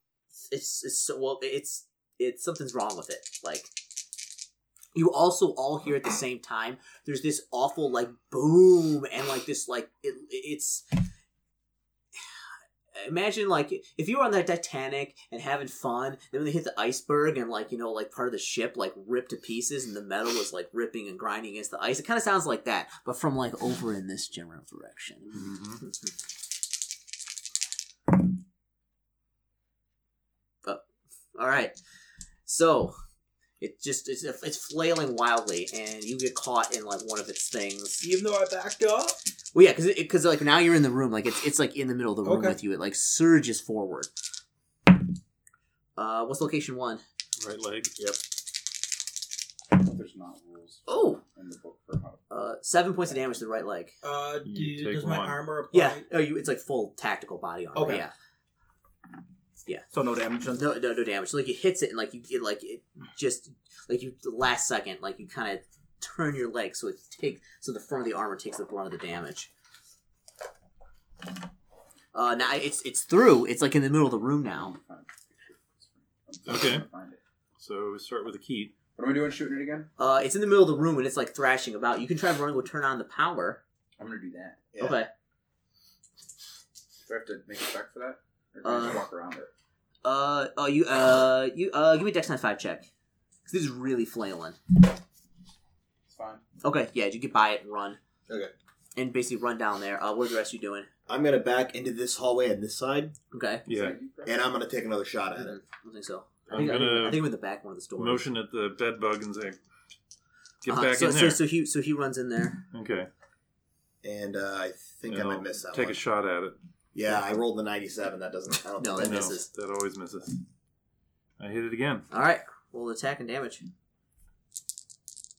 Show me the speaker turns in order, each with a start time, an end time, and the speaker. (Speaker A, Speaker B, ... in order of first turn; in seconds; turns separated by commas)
Speaker A: 0.5-3.7, Speaker A: 4.9-10.8, Speaker A: 13.0-26.1, Speaker B: 25.4-25.8, Speaker A: 31.4-31.8, Speaker A: 32.5-33.0, Speaker A: 33.6-38.1, Speaker C: 38.0-39.2, Speaker A: 39.5-44.1, Speaker C: 42.2-42.6, Speaker A: 46.0-47.0, Speaker B: 47.4-47.9, Speaker D: 49.7-52.2, Speaker A: 50.9-51.2, Speaker A: 52.3-54.0, Speaker C: 54.0-56.1, Speaker B: 54.4-55.5, Speaker A: 55.7-58.1, Speaker C: 57.7-58.1, Speaker C: 59.9-60.7, Speaker A: 60.5-69.5, Speaker A: 72.1-74.8, Speaker D: 74.5-77.2, Speaker B: 76.5-76.9, Speaker B: 77.6-78.8, Speaker D: 79.0-79.9, Speaker A: 80.0-83.6, Speaker D: 84.0-84.6, Speaker E: 84.7-85.0, Speaker A: 84.8-85.1, Speaker D: 87.1-89.5, Speaker A: 88.6-89.0, Speaker A: 90.0-92.9, Speaker A: 93.5-94.6, Speaker D: 96.1-96.4, Speaker A: 96.6-98.0, Speaker A: 99.0-100.9, Speaker E: 101.1-103.2, Speaker A: 103.3-103.7, Speaker B: 103.7-104.0, Speaker D: 103.7-104.5, Speaker E: 104.2-105.6, Speaker A: 105.4-108.3, Speaker B: 106.5-107.3, Speaker B: 108.0-109.6, Speaker B: 110.6-111.4, Speaker A: 110.7-112.7, Speaker B: 112.7-113.1, Speaker E: 114.0-116.0, Speaker B: 115.1-116.6, Speaker E: 116.9-119.4, Speaker A: 118.8-119.5, Speaker B: 119.0-120.4, Speaker B: 121.4-122.1, Speaker A: 122.1-123.7